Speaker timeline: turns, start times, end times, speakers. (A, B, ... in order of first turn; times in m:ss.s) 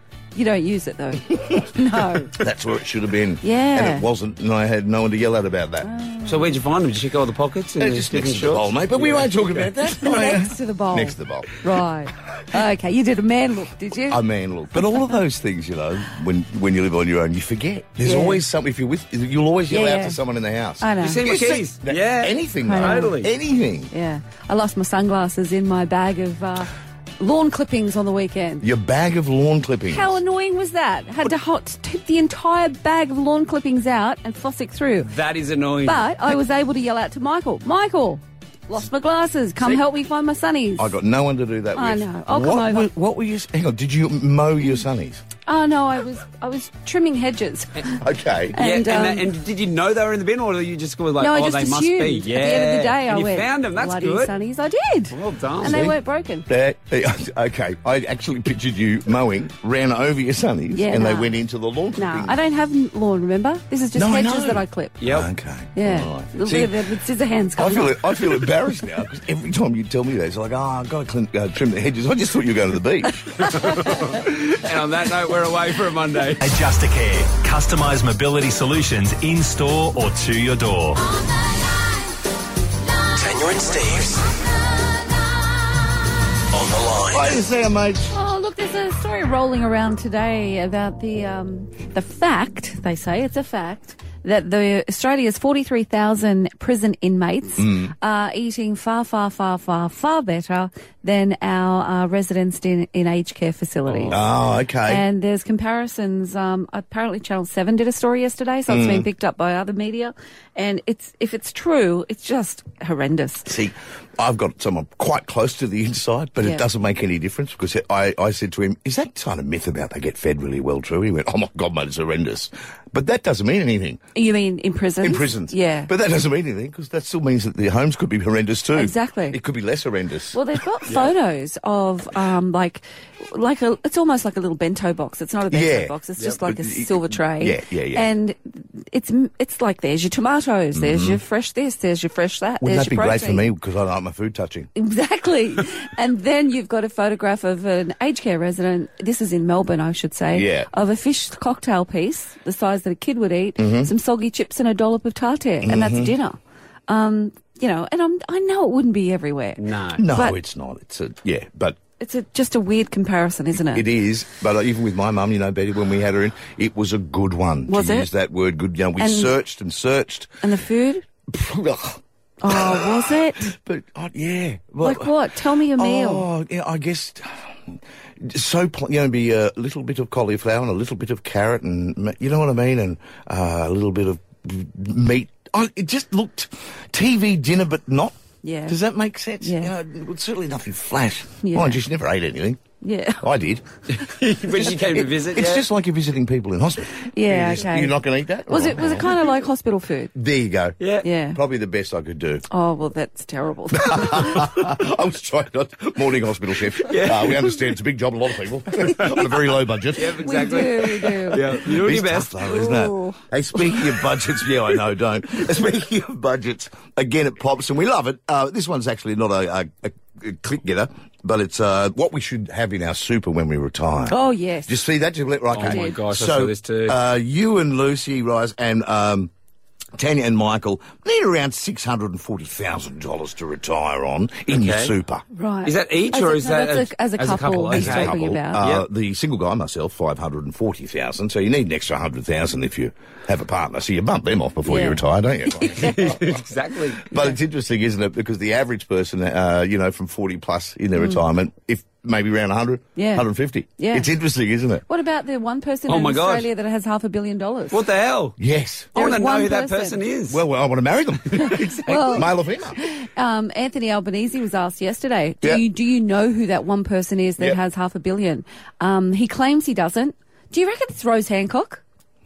0:00.3-0:02.3 A
0:01.3-0:01.6 B
0:02.4-0:05.9 B
0:03.4-0:04.0 A
0:05.8-0:06.6 A
0:06.2-0:09.6 C
0:07.8-0:11.5 B
0:09.8-0:14.2 A
0:14.1-0:23.9 B
0:18.0-0:18.4 A
0:19.7-0:20.2 A
0:20.8-0:21.2 A
0:21.0-0:23.3 C
0:22.6-0:23.1 A
0:23.9-0:28.6 A
0:28.6-0:30.2 B
0:29.9-0:35.1 A
0:35.0-0:36.1 C
0:35.8-0:40.9 A
0:40.8-0:45.2 B
0:41.7-0:42.9 A
0:45.4-0:48.0 A
0:48.0-0:48.6 B
0:48.5-0:49.3 A
0:48.6-0:54.4 C
0:51.2-0:56.5 A
0:55.1-0:55.8 C
0:55.6-1:02.4 B
1:00.7-1:01.3 A
1:02.0-1:05.0 A
1:03.9-1:06.8 B
1:05.0-1:05.3 C
1:05.7-1:08.0 A
1:07.6-1:13.5 B
1:13.4-1:16.4 C
1:16.4-1:21.0 D
1:23.1-1:24.2 E
1:26.5-1:27.4 E
1:27.1-1:28.1 B
1:28.1-1:44.2 A
1:37.6-1:37.9 B
1:43.8-1:44.2 C
1:44.1-1:45.0 B
1:44.8-1:53.5 A
1:48.7-1:49.1 B
1:53.5-2:04.0 B
1:56.4-1:56.6 A
2:04.1-2:05.9 A
2:05.0-2:10.4 B
2:08.7-2:09.4 A
2:10.3-2:23.5 A
2:10.9-2:11.1 C
2:15.5-2:18.1 B
2:20.7-2:21.2 B
2:22.6-2:24.7 B
2:24.8-2:40.4 A
2:30.3-2:30.7 B
2:33.6-2:33.9 B
2:35.6-2:36.1 B
2:39.6-2:40.0 C
2:40.0-2:41.8 B
2:42.0-2:43.8 A
2:43.7-2:50.3 B
2:47.7-2:48.1 A
2:49.0-2:49.3 A
2:50.4-2:51.0 A
2:51.3-2:55.2 B
2:52.4-2:53.5 A
2:54.8-2:56.2 A
2:55.8-3:12.6 B
3:08.4-3:08.8 A
3:09.4-3:09.7 A
3:11.4-3:11.8 A
3:12.8-3:13.2 A
3:13.2-3:13.6 B
3:13.9-3:15.6 C
3:14.7-3:19.1 B
3:17.0-3:18.0 A
3:17.3-3:17.6 C
3:18.5-3:20.1 A
3:20.1-3:20.8 B
3:20.8-3:21.0 C
3:21.0-3:21.4 A
3:21.3-3:22.4 B
3:22.5-3:24.5 A
3:23.7-3:30.7 B
3:26.9-3:27.6 C
3:29.9-3:32.4 C
3:30.2-3:31.4 A
3:31.4-3:49.3 B
3:32.4-3:33.2 A
3:44.1-3:44.8 A
3:45.5-3:47.0 C
3:45.6-3:46.0 A
3:50.0-3:55.2 B
3:54.5-3:54.9 C
3:55.3-3:58.6 A
3:55.6-3:58.8 C
3:57.7-4:06.4 B
4:04.7-4:06.2 A
4:05.7-4:07.1 C
4:07.1-4:14.8 B
4:11.0-4:11.2 A
4:13.0-4:13.2 A
4:13.8-4:14.1 A
4:14.9-4:17.8 A
4:15.9-4:16.5 C
4:17.7-4:18.4 C
4:18.4-4:19.0 B
4:18.9-4:20.4 C
4:18.9-4:20.0 A
4:20.3-4:22.8 B
4:21.3-4:22.3 C
4:21.8-4:31.8 A